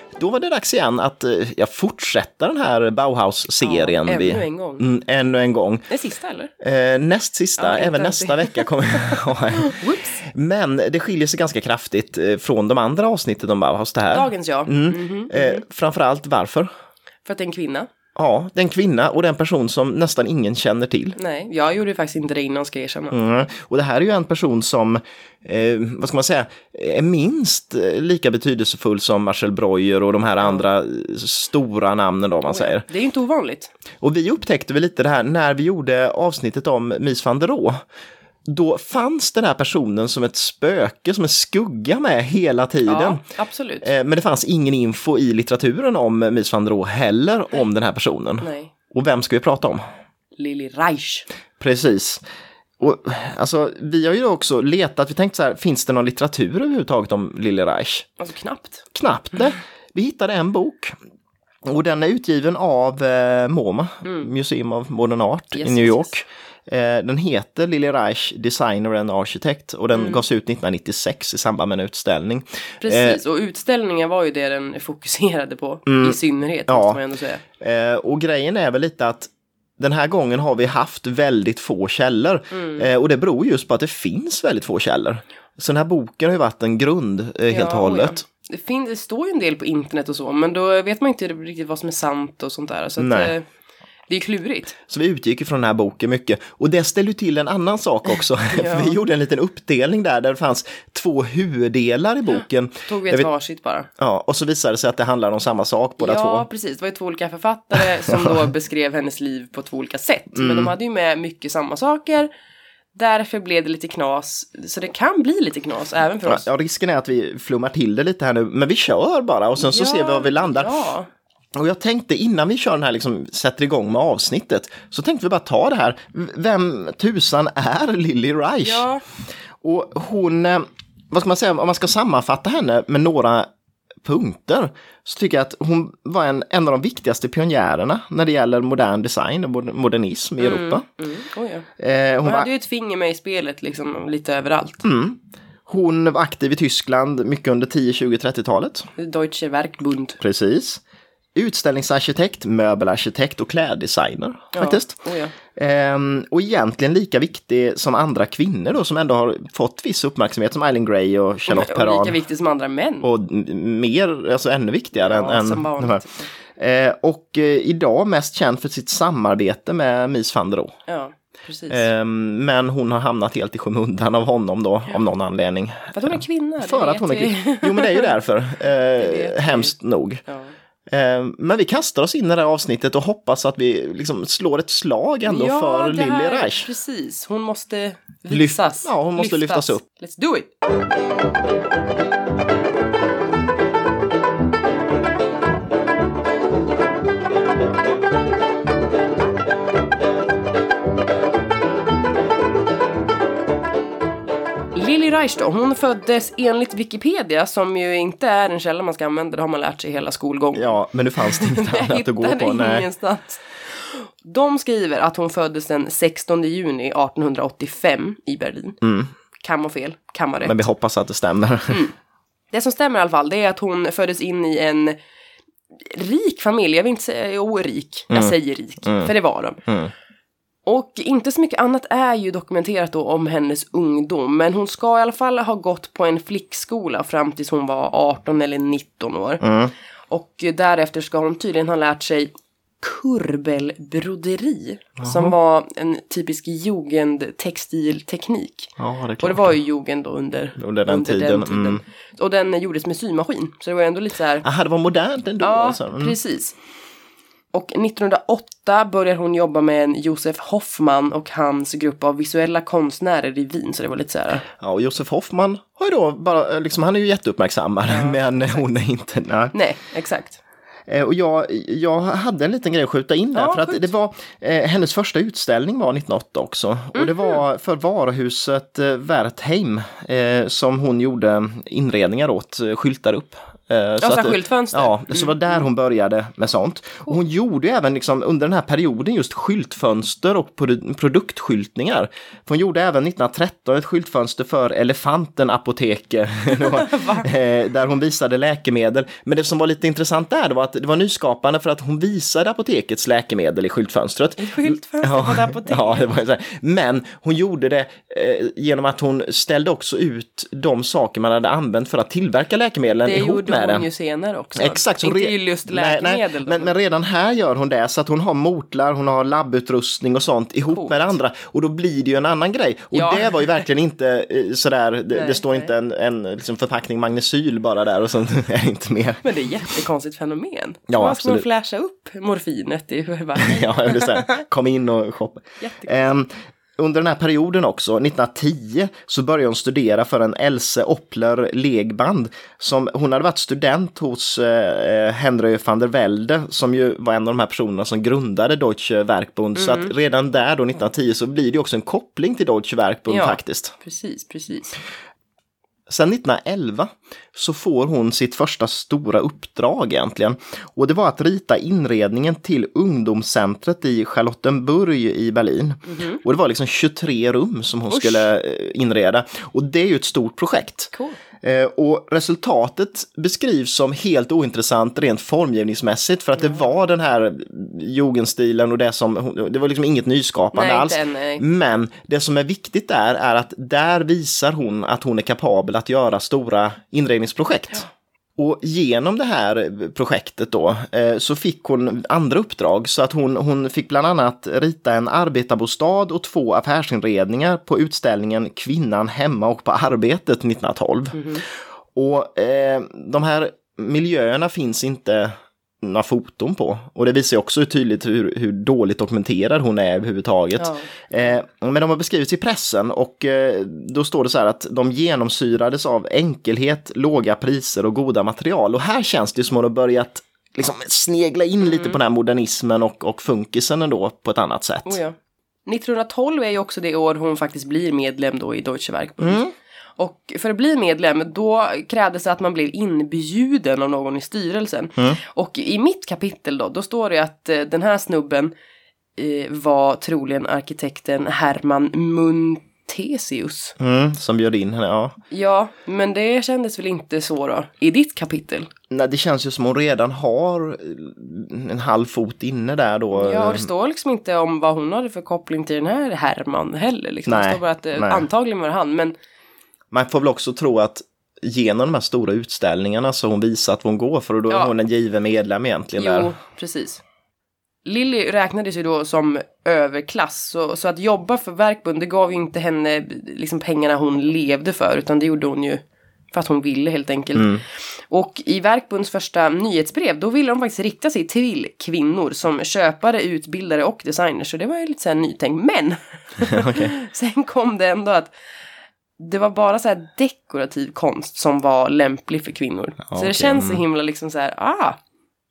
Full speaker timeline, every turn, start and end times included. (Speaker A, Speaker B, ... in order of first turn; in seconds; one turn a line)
Speaker A: 0.2-5.9
Speaker B: 3.6-4.9
Speaker B: 5.9-6.5
Speaker A: 6.6-16.7
Speaker B: 7.6-10.2
Speaker B: 14.1-15.6
Speaker B: 17.3-17.9
Speaker A: 18.2-21.2
Speaker B: 21.2-23.2
Speaker A: 23.1-32.9
Speaker B: 32.5-33.7
Speaker A: 34.0-37.8
Speaker A: 38.5-43.2
Speaker B: 42.9-43.9
Speaker A: 43.8-49.8
Speaker B: 48.4-48.7
Speaker B: 50.4-51.3
Speaker A: 51.6-52.2
Speaker A: 52.8-58.1
Speaker B: 58.2-58.9
Speaker A: 58.9-61.0
Speaker A: 61.6-73.2
Speaker B: 64.0-64.3
Speaker B: 65.5-66.1
Speaker B: 69.9-70.2
Speaker B: 72.8-77.4
Speaker A: 75.9-77.0
Speaker A: 77.6-88.2
Speaker B: 82.5-82.9
Speaker B: 87.5-93.5
Speaker A: 93.0-93.3
Speaker B: 94.1-94.8
Speaker A: 94.9-103.3
Speaker B: 98.5-99.0
Speaker B: 102.9-103.9
Speaker A: 104.0-106.5
Speaker B: 106.0-112.3
Speaker A: 107.8-108.5
Speaker A: 110.3-110.7
Speaker B: 113.0-116.5
Speaker A: 116.3-120.7
Speaker B: 119.6-121.1
Speaker A: 121.5-128.8
Speaker B: 128.6-129.0
Speaker A: 129.6-133.5
Speaker A: 134.0-140.8
Speaker B: 140.4-141.7
Speaker A: 141.8-142.5
Speaker B: 142.2-144.8
Speaker A: 144.8-148.9
Speaker B: 149.0-150.2
Speaker A: 150.2-150.8
Speaker A: 151.3-155.0
Speaker B: 154.5-155.3
Speaker A: 155.6-162.2
Speaker B: 161.5-163.1
Speaker A: 163.0-170.8
Speaker B: 165.0-166.3
Speaker B: 170.9-171.9
Speaker A: 171.7-180.2
Speaker B: 175.9-178.2
Speaker B: 179.0-179.7
Speaker B: 180.3-180.5
Speaker A: 180.9-186.7
Speaker B: 185.2-190.5
Speaker A: 188.3-189.8
Speaker B: 204.8-218.8
Speaker A: 210.5-212.9
Speaker A: 218.8-219.1
Speaker B: 219.4-220.6
Speaker A: 220.4-221.8
Speaker B: 221.7-221.9
Speaker B: 222.5-225.0
Speaker B: 225.8-229.6
Speaker A: 228.1-229.1
Speaker A: 229.7-229.9
Speaker B: 230.7-239.4
Speaker A: 239.4-239.7
Speaker B: 240.1-254.5
Speaker A: 245.0-245.3
Speaker A: 248.8-249.6
Speaker A: 250.6-251.8
Speaker A: 254.4-256.2
Speaker B: 255.4-256.6
Speaker B: 257.5-264.4
Speaker A: 264.6-269.5
Speaker B: 267.9-268.6
Speaker B: 269.5-270.4
Speaker A: 270.9-313.9
Speaker B: 273.3-273.9
Speaker B: 276.9-277.4
Speaker B: 284.0-285.6
Speaker B: 296.5-297.3
Speaker B: 304.4-306.1
Speaker B: 313.0-316.8
Speaker A: 314.6-329.2
Speaker B: 320.7-321.1
Speaker B: 322.9-323.6
Speaker B: 325.1-325.7
Speaker B: 329.2-334.4
Speaker A: 330.9-331.4
Speaker A: 333.4-353.8
Speaker B: 335.6-335.9
Speaker B: 349.6-349.9
Speaker B: 353.1-354.8
Speaker A: 355.9-425.0
Speaker B: 365.9-366.2
Speaker B: 367.9-368.2
Speaker B: 370.9-371.2
Speaker B: 380.5-381.4
Speaker B: 401.1-401.4
Speaker B: 410.6-410.9
Speaker B: 421.7-422.0
Speaker B: 424.9-425.1
Speaker B: 425.7-429.4
Speaker A: 429.2-429.5
Speaker B: 430.0-438.5
Speaker B: 439.2-443.8
Speaker A: 443.8-445.2
Speaker B: 445.3-448.7
Speaker A: 448.9-453.7
Speaker B: 453.1-459.1
Speaker A: 457.3-458.3
Speaker A: 459.9-466.3
Speaker B: 464.5-464.7
Speaker B: 466.0-467.0
Speaker B: 467.9-477.6
Speaker A: 477.4-477.6
Speaker B: 478.1-488.3
Speaker A: 486.5-486.9
Speaker B: 489.2-495.0
Speaker A: 493.1-493.8